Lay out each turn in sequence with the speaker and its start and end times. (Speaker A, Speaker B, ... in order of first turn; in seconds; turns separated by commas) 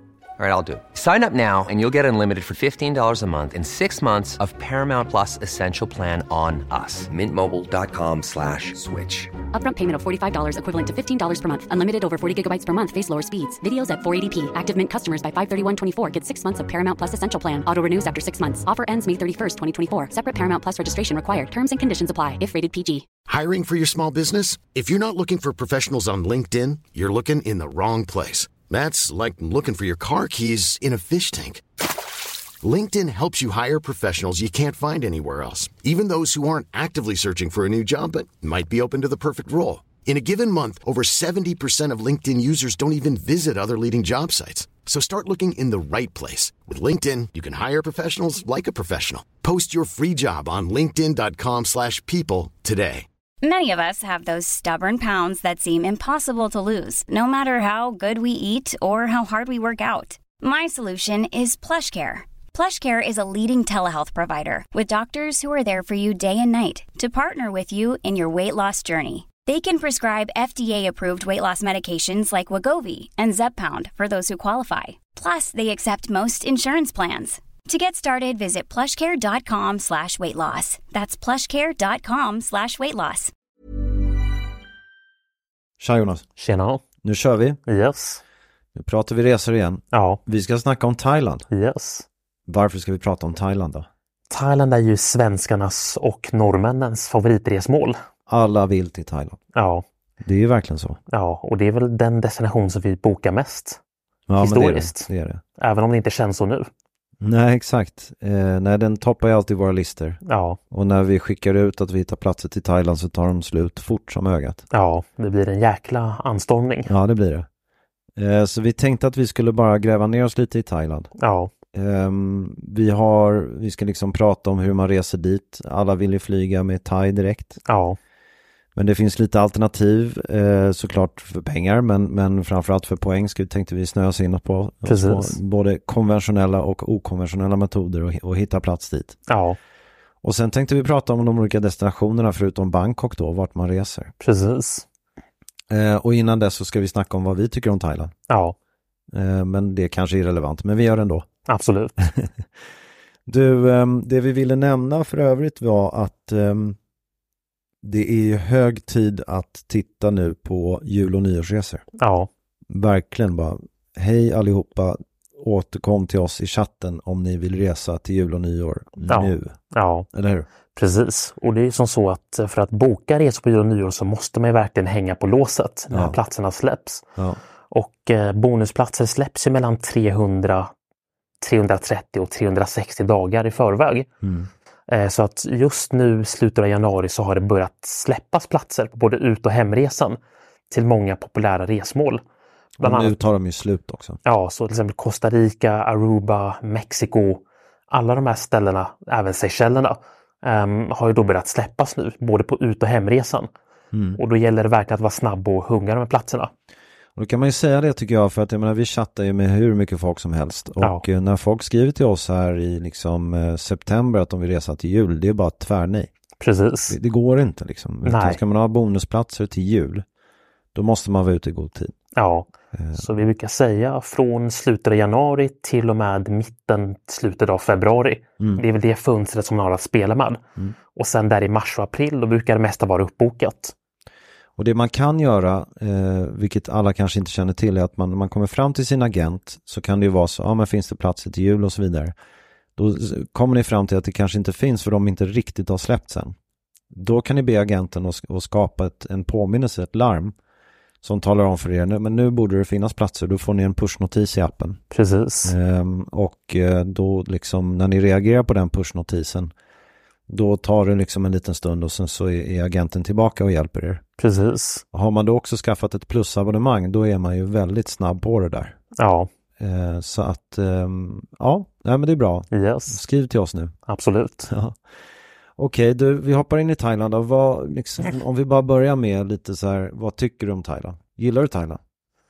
Speaker A: 0.4-9.3, Speaker B: 9.5-23.1, Speaker C: 23.3-31.6, Speaker C: 32.6-53.1, Speaker D: 53.4-83.3, Speaker E: 85.8-86.2, Speaker F: 86.4-86.8, Speaker E: 87.0-87.6, Speaker F: 87.7-88.2, Speaker E: 88.8-91.5, Speaker F: 89.9-90.2, Speaker F: 91.5-92.1, Speaker E: 92.5-93.9, Speaker F: 94.3-98.0, Speaker E: 98.3-99.4, Speaker F: 99.5-99.8, Speaker E: 100.2-101.0, Speaker F: 101.1-103.8, Speaker E: 104.3-105.4, Speaker F: 104.4-106.7, Speaker E: 107.2-114.6, Speaker F: 110.2-110.6, Speaker F: 114.7-116.9, Speaker E: 116.9-117.5, Speaker E: 118.2-121.1, Speaker F: 121.2-121.5, Speaker E: 121.7-127.6, Speaker F: 127.7-128.0, Speaker E: 128.8-139.2, Speaker F: 134.8-135.4, Speaker F: 139.3-139.6, Speaker E: 140.2-144.1, Speaker F: 144.2-144.9, Speaker E: 145.7-148.1, Speaker F: 148.3-148.6, Speaker E: 149.1-151.3, Speaker F: 151.5-152.1, Speaker E: 152.0-152.3, Speaker E: 153.3-156.8, Speaker E: 157.8-161.8, Speaker F: 162.0-162.3, Speaker E: 162.7-169.6, Speaker F: 169.1-170.1, Speaker E: 170.1-170.5, Speaker F: 170.7-177.1, Speaker E: 175.9-176.2, Speaker F: 177.7-180.7, Speaker F: 181.4-184.1, Speaker E: 184.2-184.5, Speaker F: 184.9-190.2, Speaker F: 190.7-192.2, Speaker F: 192.8-193.2, Speaker E: 192.8-194.2, Speaker F: 194.2-203.5, Speaker E: 203.9-204.2, Speaker F: 204.2-206.5, Speaker E: 207.2-216.1, Speaker F: 210.8-211.1, Speaker F: 216.4-217.0, Speaker E: 216.9-220.1, Speaker F: 218.0-218.4, Speaker E: 220.7-221.9, Speaker F: 222.2-230.4, Speaker E: 222.7-223.2, Speaker F: 230.9-233.8, Speaker E: 234.6-242.1, Speaker E: 242.8-246.3, Speaker E: 246.9-250.3, Speaker E: 251.0-254.8, Speaker F: 254.9-255.5, Speaker E: 255.4-259.5, Speaker E: 260.3-264.0, Speaker F: 264.2-264.8, Speaker E: 264.9-268.8, Speaker F: 269.0-269.3, Speaker E: 269.6-273.8, Speaker F: 272.5-273.0, Speaker F: 273.9-274.5, Speaker E: 274.5-274.8, Speaker E: 275.6-281.8